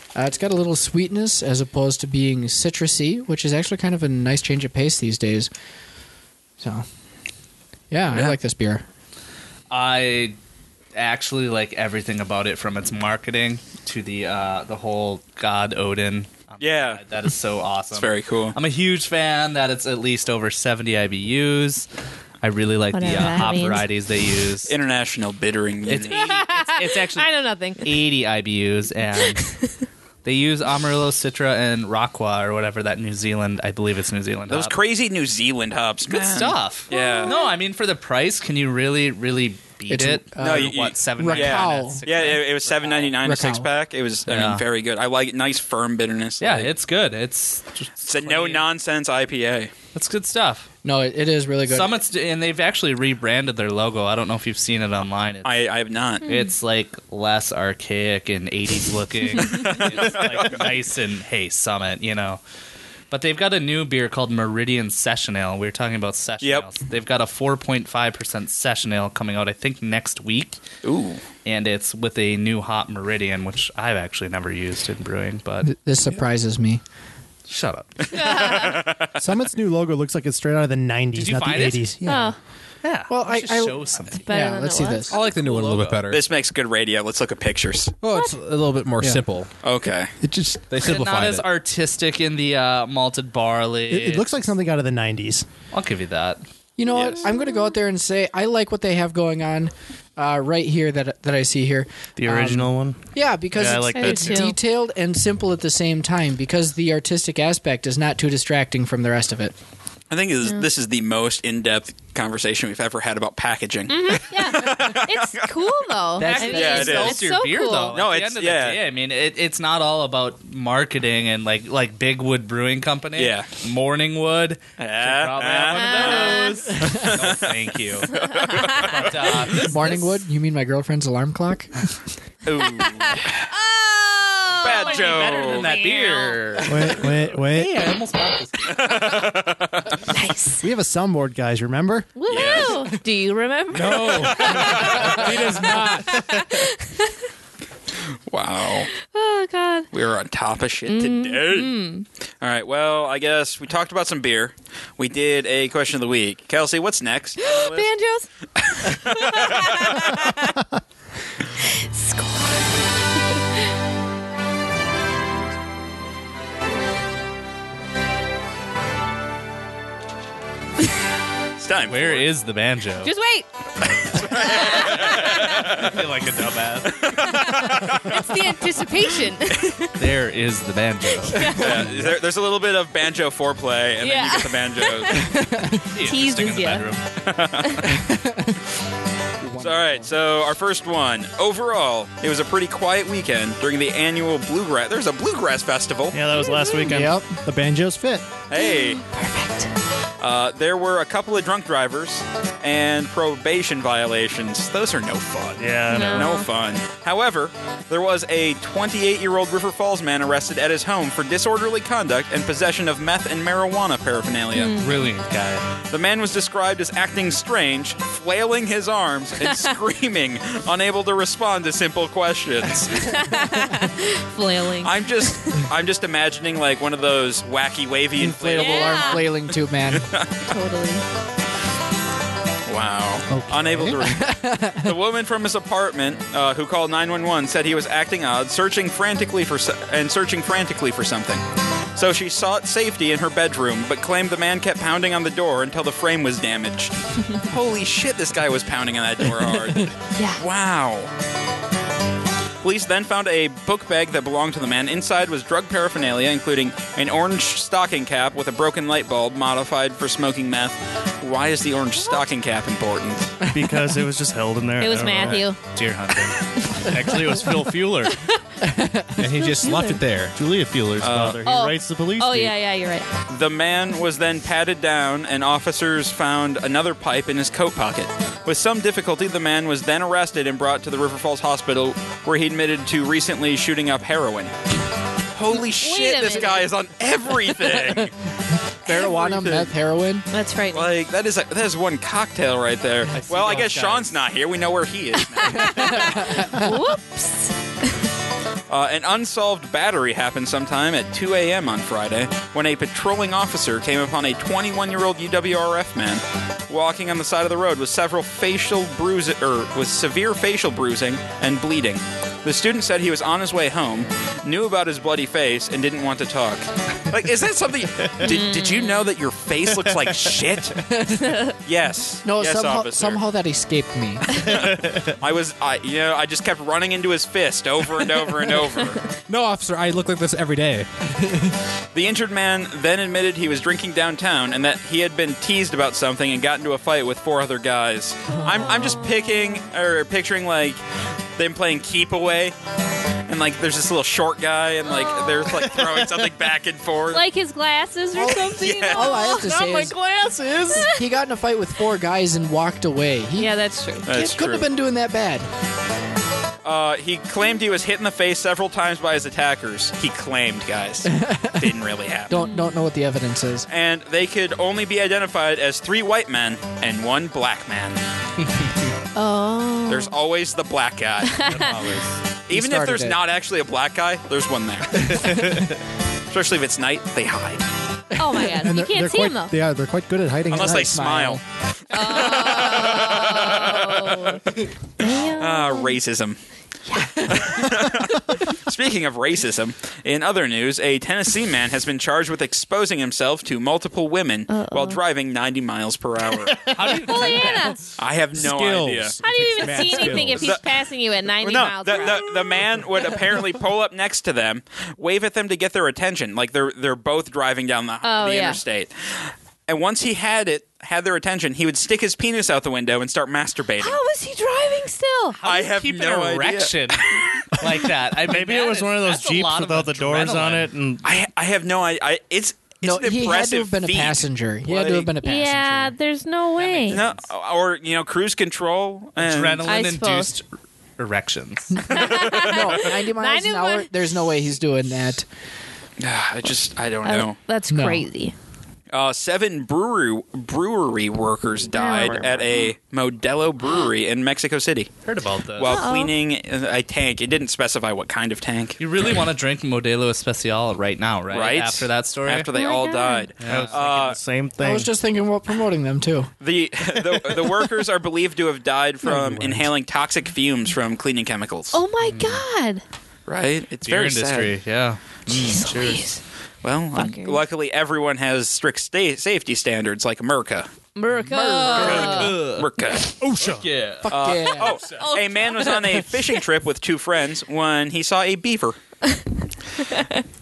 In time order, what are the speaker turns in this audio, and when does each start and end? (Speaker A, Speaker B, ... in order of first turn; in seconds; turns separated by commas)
Speaker A: 0.1-5.5, Speaker A: 7.9-8.8, Speaker B: 9.7-10.3, Speaker B: 10.9-21.9, Speaker C: 16.6-17.0, Speaker C: 17.9-18.6, Speaker B: 22.4-24.7, Speaker D: 22.9-23.9, Speaker C: 24.7-26.2, Speaker B: 25.9-29.4, Speaker D: 26.1-28.0, Speaker D: 29.2-29.7, Speaker B: 30.2-34.7, Speaker C: 34.5-37.3, Speaker B: 36.1-43.1, Speaker D: 36.9-37.5, Speaker A: 39.9-42.0, Speaker C: 40.4-46.7, Speaker A: 43.2-43.7, Speaker B: 44.3-44.6, Speaker B: 46.4-48.7, Speaker C: 48.0-49.7, Speaker B: 49.9-50.7, Speaker A: 50.8-51.9, Speaker B: 51.7-55.5, Speaker C: 55.4-56.2, Speaker D: 56.2-56.5, Speaker B: 56.2-62.4, Speaker C: 59.5-60.7, Speaker B: 63.1-70.6, Speaker C: 66.4-66.7, Speaker C: 70.8-71.2, Speaker B: 71.4-75.7, Speaker A: 75.6-76.8, Speaker B: 77.5-78.6, Speaker C: 78.1-79.2, Speaker D: 78.1-78.9, Speaker E: 79.2-82.3, Speaker B: 81.1-81.9, Speaker D: 82.0-82.4, Speaker B: 82.8-84.2, Speaker A: 83.1-85.2, Speaker D: 84.2-85.2, Speaker F: 85.1-86.2, Speaker B: 85.2-86.0, Speaker C: 86.1-88.0, Speaker F: 88.0-89.5, Speaker D: 88.1-88.4, Speaker C: 89.6-90.1, Speaker F: 90.2-91.5, Speaker B: 90.8-94.5, Speaker E: 93.9-95.5, Speaker B: 95.7-96.4, Speaker A: 96.8-109.5, Speaker C: 96.9-97.2, Speaker D: 97.3-97.7, Speaker G: 102.2-104.5, Speaker D: 103.9-104.5, Speaker C: 110.1-115.5, Speaker D: 113.9-118.0, Speaker A: 116.2-117.1, Speaker B: 116.2-130.2, Speaker C: 116.5-117.2, Speaker C: 117.9-118.8, Speaker C: 123.2-123.5, Speaker C: 124.8-127.5, Speaker D: 125.7-126.7, Speaker D: 128.1-128.9, Speaker C: 128.2-129.3, Speaker A: 129.6-131.7, Speaker C: 132.4-133.4, Speaker D: 132.7-136.7, Speaker C: 134.6-135.8, Speaker B: 134.7-139.2, Speaker E: 136.7-137.8, Speaker C: 138.7-140.0, Speaker D: 140.1-140.7, Speaker E: 140.6-142.1, Speaker D: 142.2-147.1, Speaker C: 142.3-142.9, Speaker F: 143.7-146.2, Speaker E: 143.8-144.7, Speaker C: 144.3-145.1, Speaker C: 148.3-148.9, Speaker D: 148.9-149.9, Speaker C: 149.9-151.7, Speaker D: 150.8-152.0, Speaker C: 152.4-157.9, Speaker D: 157.4-158.3, Speaker C: 158.8-160.2, Speaker D: 158.9-160.6, Speaker D: 161.6-162.7, Speaker C: 171.6-172.3, Speaker B: 171.9-173.1, Speaker D: 173.0-173.5, Speaker C: 174.1-176.0, Speaker D: 174.2-175.4, Speaker B: 175.1-177.2, Speaker C: 176.9-178.2, Speaker D: 177.2-180.0, Speaker B: 180.0-181.5, Speaker D: 181.2-181.9, Speaker C: 181.5-185.3, Speaker D: 184.0-185.3, Speaker A: 185.3-185.8, Speaker B: 185.9-187.0, Speaker D: 186.0-186.9, Speaker C: 187.2-187.9, Speaker A: 187.8-188.6, Speaker A: 189.4-190.1, Speaker C: 189.6-196.2, Speaker G: 196.1-197.2, Speaker D: 196.3-197.0, Speaker A: 196.9-197.3, Speaker E: 197.4-198.3, Speaker C: 198.5-199.0, Speaker D: 198.5-199.7, Speaker C: 200.2-214.8, Speaker G: 205.6-206.4, Speaker D: 205.8-206.5, Speaker D: 214.5-214.9, Speaker B: 214.8-215.6, Speaker C: 215.8-223.2, Speaker D: 223.0-225.6, Speaker C: 224.8-229.2, Speaker A: 228.2-230.1, Speaker D: 228.6-229.3, Speaker C: 229.9-230.3, Speaker D: 230.5-231.0, Speaker C: 232.7-241.4, Speaker E: 233.3-234.1, Speaker A: 234.0-234.9, Speaker C: 241.9-251.1, Speaker D: 250.1-250.4, Speaker C: 252.6-263.4, Speaker D: 262.0-262.2, Speaker G: 263.5-265.5, Speaker D: 264.8-265.6, Speaker B: 265.3-267.8, Speaker G: 266.9-268.1, Speaker D: 268.1-268.4, Speaker A: 268.6-269.3, Speaker F: 269.2-270.3, Speaker D: 269.3-270.0, Speaker G: 270.3-272.5, Speaker C: 271.0-271.4, Speaker D: 271.4-273.1, Speaker C: 273.3-284.5, Speaker C: 285.3-288.1, Speaker D: 285.5-286.7, Speaker A: 288.9-290.2, Speaker C: 288.9-289.7, Speaker D: 290.3-290.9, Speaker C: 290.7-296.3, Speaker B: 293.1-294.1, Speaker D: 295.4-297.5, Speaker C: 298.7-320.8, Speaker D: 318.2-319.1, Speaker A: 320.9-321.3, Speaker D: 321.2-321.5, Speaker C: 321.6-323.2, Speaker A: 322.2-324.2, Speaker C: 324.4-329.0, Speaker G: 324.5-325.0, Speaker F: 329.3-330.9, Speaker C: 331.9-340.8, Speaker D: 338.6-339.2, Speaker C: 341.4-342.5, Speaker C: 343.3-347.2, Speaker D: 344.8-345.7, Speaker D: 347.1-349.9, Speaker A: 348.1-349.9, Speaker C: 348.6-349.3, Speaker D: 350.6-351.0, Speaker A: 350.7-355.5, Speaker D: 353.4-354.1, Speaker C: 354.1-354.7, Speaker C: 356.6-362.3, Speaker A: 361.1-361.7, Speaker A: 362.3-363.7, Speaker D: 362.3-362.8, Speaker C: 363.7-368.0, Speaker D: 369.1-370.1, Speaker C: 369.9-371.7, Speaker D: 371.3-372.0, Speaker C: 372.5-375.6, Speaker A: 372.5-373.2, Speaker A: 375.2-375.5, Speaker C: 376.3-377.7, Speaker D: 378.1-379.5, Speaker E: 378.6-381.0, Speaker C: 380.5-384.4, Speaker A: 380.6-381.4, Speaker D: 381.9-386.0, Speaker C: 385.0-386.4, Speaker D: 386.9-387.8, Speaker C: 387.2-396.7, Speaker D: 394.5-395.0, Speaker B: 396.7-397.8, Speaker D: 396.9-397.9, Speaker C: 398.0-399.2, Speaker F: 398.4-400.5, Speaker D: 399.2-402.6, Speaker C: 399.9-400.6, Speaker C: 401.4-414.0, Speaker D: 408.0-408.6, Speaker D: 413.8-415.4, Speaker B: 415.4-420.7, Speaker C: 415.4-417.5, Speaker G: 418.2-421.0, Speaker C: 421.0-425.1, Speaker A: 422.8-425.9, Speaker D: 425.2-427.0, Speaker B: 426.6-427.2, Speaker C: 426.9-429.7, Speaker B: 429.2-430.4, Speaker D: 429.6-430.3, Speaker B: 431.0-432.0, Speaker A: 431.8-435.2, Speaker D: 431.9-433.9, Speaker C: 432.2-432.5, Speaker C: 436.0-437.4, Speaker D: 437.0-438.3, Speaker A: 437.7-438.1, Speaker C: 438.9-444.9, Speaker D: 441.7-442.7, Speaker B: 445.1-445.8, Speaker C: 445.6-449.2, Speaker D: 445.6-446.1, Speaker B: 448.8-452.5, Speaker C: 451.3-454.2, Speaker D: 452.5-453.3, Speaker B: 453.4-453.8, Speaker G: 453.4-454.9, Speaker A: 454.6-456.3, Speaker C: 456.4-461.8, Speaker E: 459.0-459.7, Speaker D: 461.7-462.8, Speaker B: 462.0-462.4, Speaker C: 463.3-464.5, Speaker B: 463.8-466.1, Speaker D: 465.3-466.2, Speaker C: 466.6-470.7, Speaker D: 466.9-467.4, Speaker D: 470.9-472.4, Speaker A: 471.1-472.3, Speaker C: 471.7-473.1, Speaker B: 471.8-472.7, Speaker E: 473.2-473.6, Speaker B: 473.4-474.1, Speaker A: 474.0-474.8, Speaker C: 474.1-478.8, Speaker D: 474.8-476.4, Speaker D: 479.8-480.2